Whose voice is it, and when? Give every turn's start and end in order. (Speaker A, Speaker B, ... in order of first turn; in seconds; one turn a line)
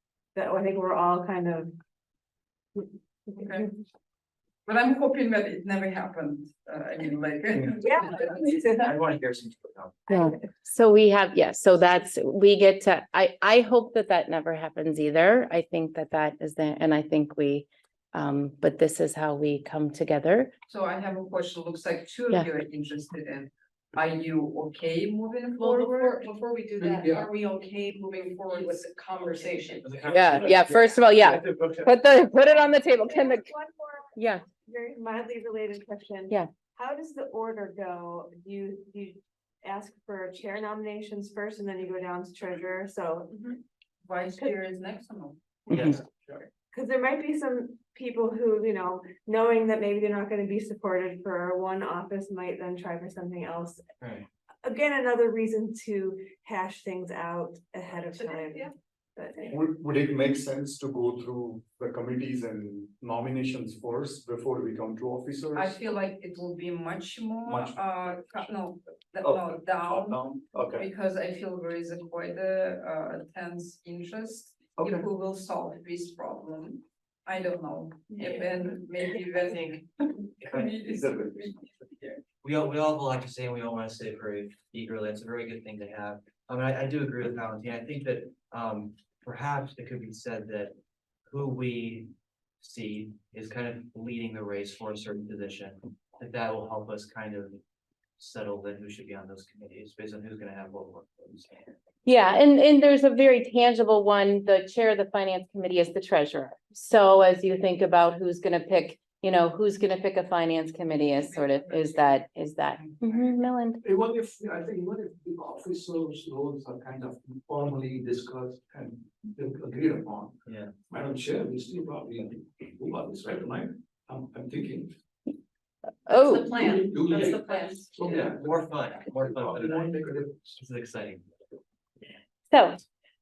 Speaker A: 0.3-1.8
Speaker B: 3.4-3.7
Speaker B: 4.7-8.7
Speaker A: 7.8-8.9
Speaker C: 8.7-10.1
Speaker A: 10.1-10.4
Speaker D: 10.1-20.5
Speaker B: 20.7-26.3
Speaker E: 25.5-30.0
Speaker F: 26.8-27.3
Speaker C: 29.8-31.9
Speaker D: 30.1-33.5
Speaker A: 32.9-43.5
Speaker D: 34.1-34.4
Speaker B: 44.0-46.5
Speaker C: 45.7-46.0
Speaker A: 46.7-53.8
Speaker C: 54.0-54.3
Speaker A: 54.6-59.5
Speaker E: 58.1-58.6
Speaker G: 59.5-65.8
Speaker B: 65.5-82.2
Speaker G: 67.5-67.9
Speaker G: 69.2-70.8
Speaker G: 74.8-75.1
Speaker C: 78.1-79.8
Speaker C: 80.4-80.8
Speaker G: 80.9-81.6
Speaker C: 82.4-90.8
Speaker C: 91.3-97.6
Speaker C: 98.2-101.7
Speaker D: 102.1-113.8
Speaker B: 111.2-112.2
Speaker B: 112.8-113.3
Speaker F: 113.8-124.9
Speaker C: 120.5-120.7
Speaker D: 126.0-126.6
Speaker E: 126.1-128.3
Speaker F: 126.5-130.6
Speaker C: 127.1-127.3
Speaker C: 128.0-131.3
Speaker D: 132.5-132.8